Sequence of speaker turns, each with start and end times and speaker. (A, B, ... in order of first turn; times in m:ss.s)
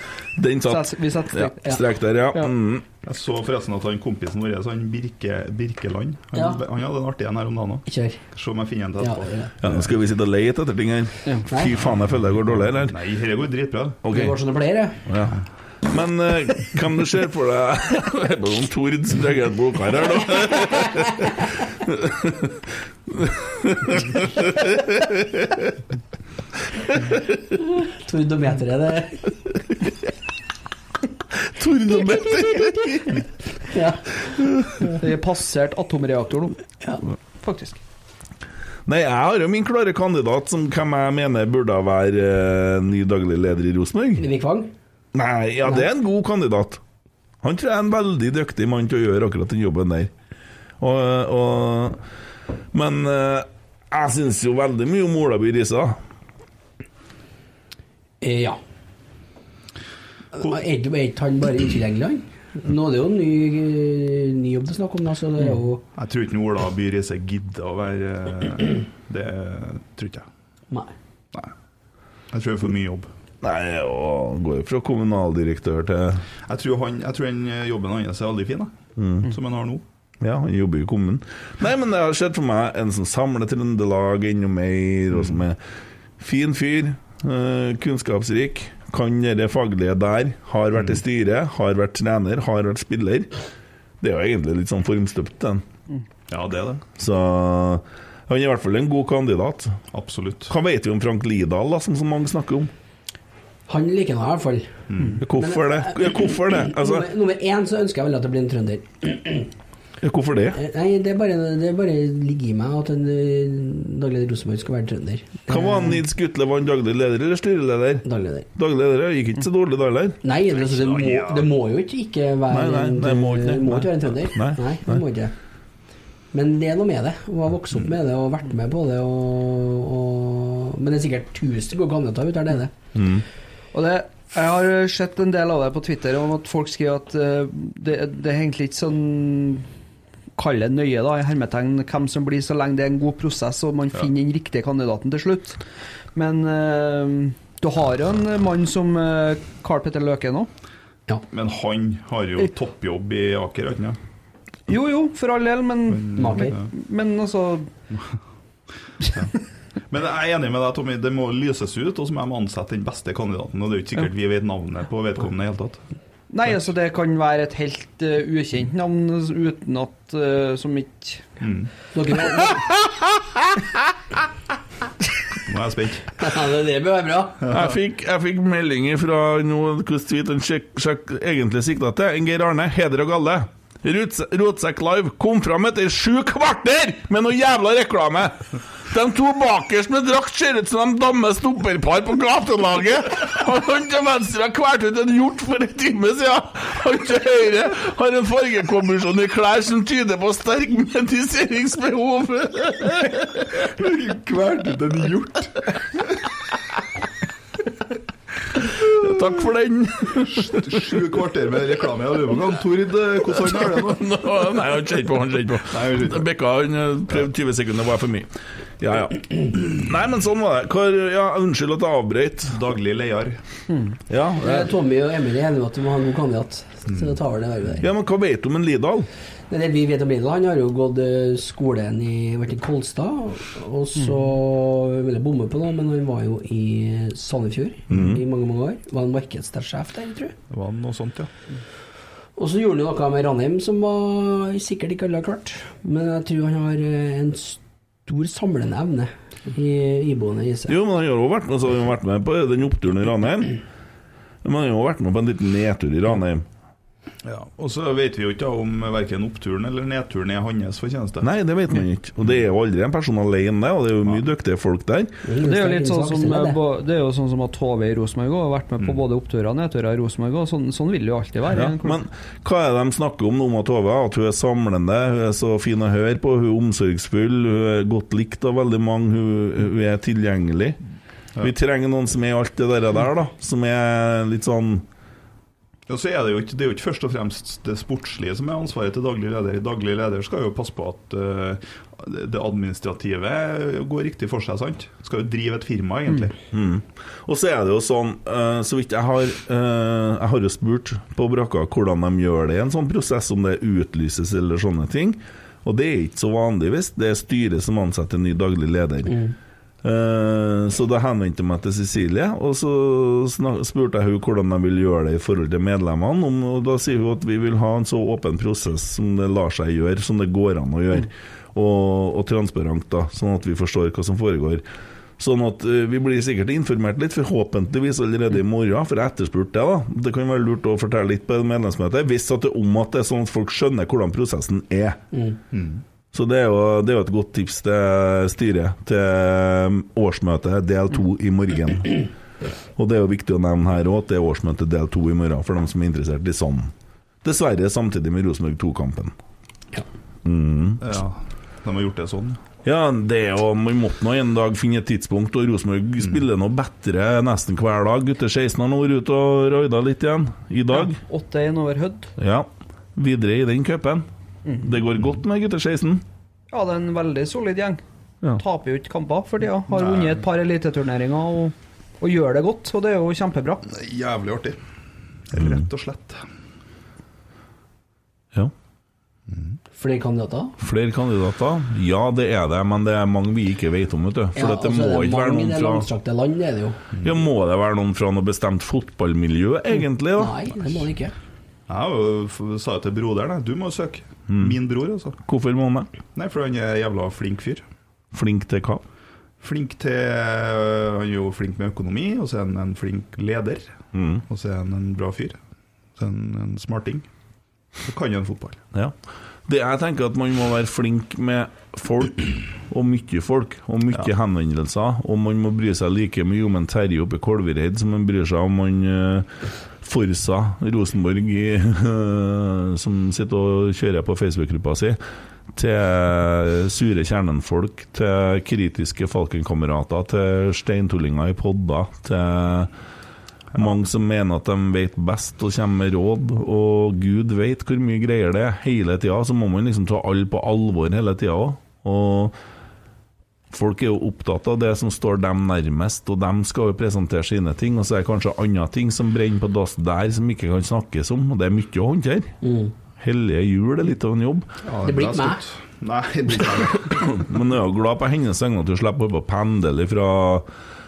0:00.4-0:02.8 A
0:00.7-0:01.8 B
0:03.0-0:09.9 C
0:06.3-0:06.6 D
0:07.8-0:08.2 D
0:09.0-0:09.5 D
0:09.6-0:13.0 A
0:11.5-0:11.7 D
0:12.7-0:14.0 C
0:14.0-0:14.4 A
0:14.1-0:15.0 D
0:15.0-0:25.8 A
0:26.8-0:27.2 A
0:27.8-0:29.3 D
0:31.4-0:33.3 A
0:33.7-0:34.0 D
0:34.3-0:35.0 A
0:35.0-0:36.6 B
0:37.4-0:37.8 B
0:38.9-0:44.2 A
0:44.2-0:44.7 D
0:45.1-0:46.8 A
0:47.4-0:50.1 A
0:50.8-0:52.0 A
0:52.7-0:56.0 A
0:58.2-0:58.6 D
1:00.3-1:05.8 D
1:05.9-1:10.3 C
1:12.3-1:13.1 C
1:13.4-1:16.2 A
1:16.4-1:19.8 C
1:19.0-1:19.3 A
1:20.2-1:25.6 A
1:25.1-1:25.4 C
1:26.2-1:33.3 A
1:34.0-1:35.6 A
1:36.3-1:36.8 C
1:37.0-1:39.8 A
1:39.9-1:40.5 C
1:40.5-1:42.7 A
1:43.7-1:44.7 D
1:44.9-1:45.2 C
1:45.2-1:47.1 A
1:45.2-1:49.5 D
1:50.0-1:50.6 A
1:50.5-1:56.0 D
1:55.5-2:00.2 A
1:58.0-1:58.5 D
2:00.2-2:05.3 D
2:00.5-2:01.5 C
2:02.5-2:05.0 A
2:06.3-2:12.7 D
2:12.9-2:13.2 A
2:13.7-2:19.7 B
2:20.4-2:25.6 B
2:26.1-2:30.5 B
2:31.3-2:34.0 C
2:34.7-2:37.7 B
2:35.9-2:36.7 C
2:36.1-2:36.6 D
2:39.9-2:45.8 C
2:46.3-2:51.2 B
2:51.4-2:51.7 C
2:51.9-2:52.6 D
2:55.4-2:56.2 C
2:56.2-2:57.4 D
2:57.4-2:57.7 C
2:57.5-3:23.6 A
3:23.7-3:25.7 C
3:28.6-3:31.0 A
3:30.3-3:34.0 C
3:33.2-3:38.3 A
3:35.7-3:36.2 C
3:38.8-3:42.6 A
3:42.5-3:43.4 C
3:44.1-3:44.7 A
3:44.4-3:47.9 D
3:46.9-3:47.1 C
3:47.8-3:49.1 A
3:49.5-4:00.3 D
3:57.9-3:58.2 A
4:00.5-4:01.3 C
4:02.4-4:10.8 D
4:10.7-4:13.6 A
4:14.4-4:16.4 A
4:17.2-4:21.3 C
4:21.2-4:25.1 A
4:25.2-4:26.6 D
4:25.4-4:32.0 B
4:31.5-4:40.8 A
4:41.4-4:44.8 A
4:45.9-4:56.4 C
4:56.5-5:09.2 A
5:09.1-5:09.3 D
5:09.8-5:24.6 A
5:25.2-5:35.0 A
5:35.5-5:35.8 C
5:36.1-5:42.0 A
5:42.8-5:46.7 A
5:47.2-5:49.1 A
5:50.2-5:50.8 A
5:50.8-5:52.4 C
5:52.6-6:01.0 A
6:00.7-6:02.1 B
6:02.2-6:04.0 A
6:04.6-6:06.0 A
6:06.5-6:07.8 B
6:08.4-6:13.6 B
6:09.7-6:10.2 C
6:13.7-6:14.6 C
6:15.3-6:16.2 C
6:15.4-6:15.6 A
6:19.3-6:19.6 C
6:19.7-6:20.6 D
6:20.6-6:25.8 A
6:24.3-6:26.8 D
6:26.9-6:27.2 C
6:27.0-6:30.4 A
6:30.2-6:31.1 D
6:31.7-6:35.2 C
6:34.3-6:34.6 A
6:35.2-6:35.9 A
6:36.2-6:37.6 C
6:38.1-6:38.8 A
6:39.4-6:43.7 C
6:43.9-6:44.2 A
6:44.3-6:45.4 C
6:46.0-6:47.0 C
6:47.8-6:48.6 C
6:49.5-6:59.3 A
6:59.8-7:05.0 A
7:05.5-7:12.7 A
7:13.5-7:22.4 A
7:23.5-7:32.3 A
7:32.4-7:32.7 D
7:33.0-7:34.4 A
7:34.6-7:37.3 C
7:34.8-7:35.4 D
7:37.0-7:40.4 A